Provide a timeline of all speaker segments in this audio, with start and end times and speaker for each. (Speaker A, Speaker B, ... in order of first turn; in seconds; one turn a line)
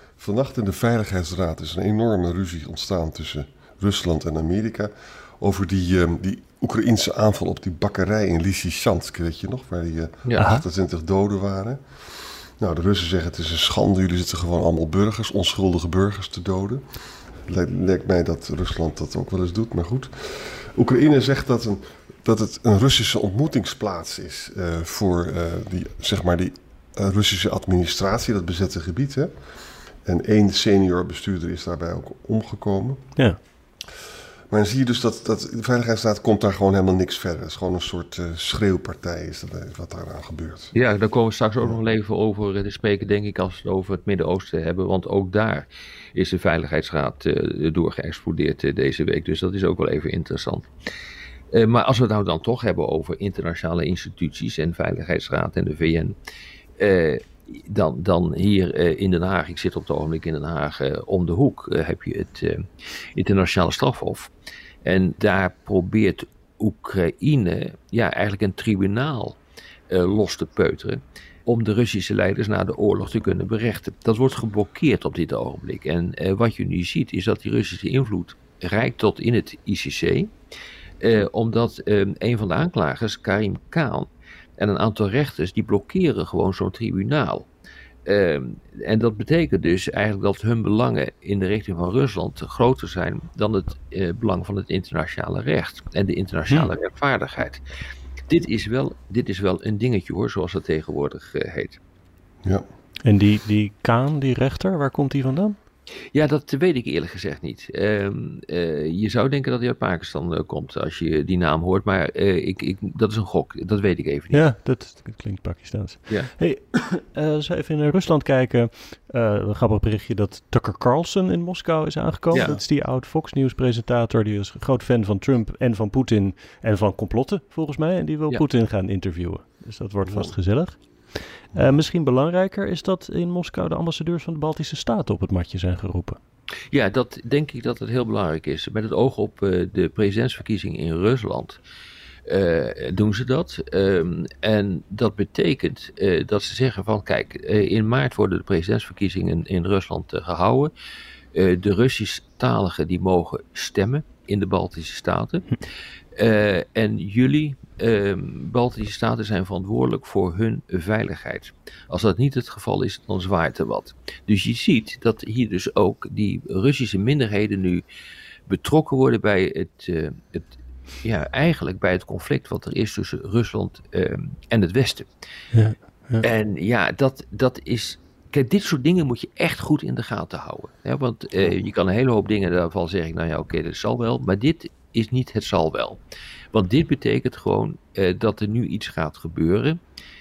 Speaker A: 0.2-11.8
Speaker B: 10.4-10.6
Speaker A: 12.6-16.8
Speaker A: 17.4-29.3
Speaker A: 30.0-33.1
Speaker A: 34.5-40.7
Speaker C: 40.7-50.7
Speaker C: 51.5-56.1
Speaker C: 56.8-62.6
Speaker C: 63.1-64.3
Speaker C: 64.8-69.4
Speaker C: 69.9-80.3
Speaker C: 81.0-87.5
Speaker C: 88.0-97.6
Speaker C: 98.3-101.8
Speaker B: 103.0-105.6
Speaker C: 106.1-114.5
Speaker B: 114.3-136.2
Speaker A: 130.0-130.3
Speaker C: 136.7-141.6
Speaker C: 142.3-150.7
Speaker C: 151.3-155.6
Speaker C: 156.2-167.8
Speaker C: 168.5-175.1
Speaker B: 175.5-176.2
Speaker C: 176.2-186.0
Speaker C: 186.5-189.8